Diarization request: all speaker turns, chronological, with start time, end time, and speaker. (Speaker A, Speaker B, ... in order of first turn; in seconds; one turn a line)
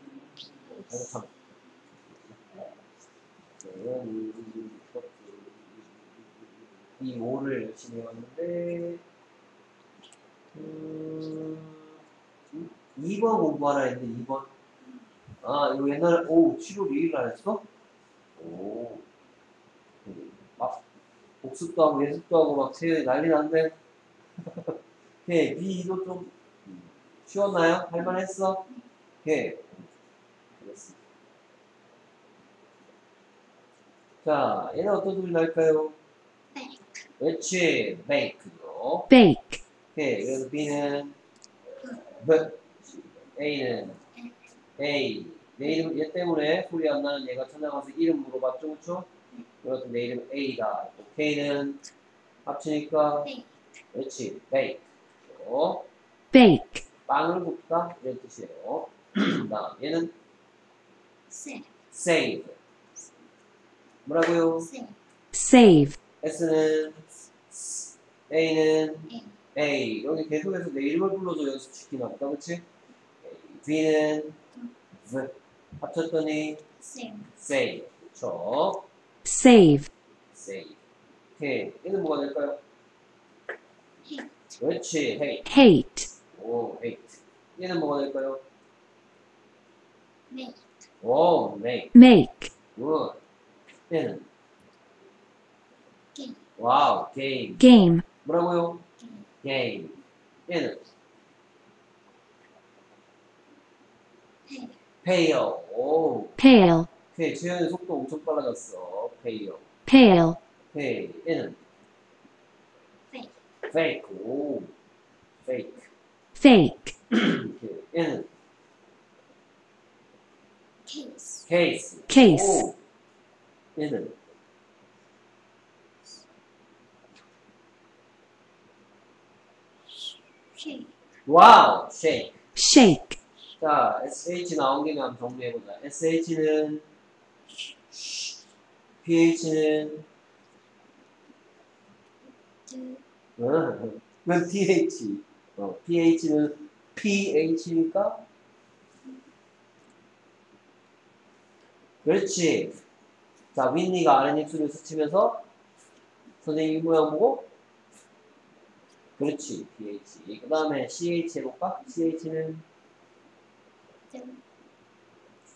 Speaker A: 0.8-1.3
Speaker A: 2.1-2.6
Speaker A: 3.6-6.3
Speaker A: 7.0-9.0
Speaker A: 10.5-11.9
Speaker A: 12.5-14.5
Speaker A: 15.4-17.7
Speaker A: 18.4-19.1
Speaker A: 20.1-20.8
Speaker A: 21.4-23.8
Speaker A: 24.5-28.7
Speaker A: 29.2-29.9
Speaker A: 30.6-31.0
Speaker A: 34.2-36.0
Speaker B: 36.5-36.8
Speaker A: 37.2-39.1
Speaker C: 39.1-39.6
Speaker A: 39.9-41.2
Speaker A: 42.0-44.0
Speaker A: 44.8-49.1
Speaker A: 49.6-51.8
Speaker A: 52.5-53.3
Speaker A: 53.9-55.9
Speaker C: 56.3-56.8
Speaker A: 57.1-60.1
Speaker B: 61.3-61.7
Speaker A: 61.9-62.6
Speaker A: 64.0-64.7
Speaker B: 64.6-65.0
Speaker C: 65.3-66.0
Speaker A: 66.2-72.6
Speaker B: 69.1-69.3
Speaker A: 73.2-74.4
Speaker A: 75.0-76.6
Speaker B: 76.8-77.3
Speaker A: 77.3-78.8
Speaker C: 79.2-79.9
Speaker A: 80.3-80.8
Speaker A: 81.4-82.6
Speaker B: 84.0-84.4
Speaker A: 84.6-85.5
Speaker C: 85.5-86.1
Speaker A: 86.3-88.4
Speaker B: 90.3-90.6
Speaker A: 91.0-91.9
Speaker C: 91.9-92.5
Speaker A: 92.7-93.2
Speaker A: 93.9-94.3
Speaker B: 96.1-96.4
Speaker A: 96.6-98.8
Speaker C: 97.6-98.0
Speaker A: 99.4-100.9
Speaker B: 104.5-104.8
Speaker A: 105.0-106.4
Speaker C: 106.4-106.9
Speaker A: 107.1-109.7
Speaker C: 109.9-110.4
Speaker A: 110.7-111.6
Speaker A: 113.7-114.7
Speaker A: 115.4-115.9
Speaker C: 116.3-116.9
Speaker A: 117.1-118.3
Speaker B: 120.8-121.5
Speaker A: 121.5-122.8
Speaker C: 122.1-122.6
Speaker A: 123.8-124.2
Speaker B: 130.6-130.9
Speaker A: 131.2-132.4
Speaker C: 132.6-133.2
Speaker A: 133.6-136.9
Speaker A: 137.9-138.4
Speaker A: 139.0-140.1
Speaker B: 142.7-143.0
Speaker A: 143.4-148.2
Speaker A: 152.0-152.8
Speaker A: 153.5-155.4
Speaker A: 156.4-157.5
Speaker A: 159.2-162.7
Speaker B: 164.1-164.4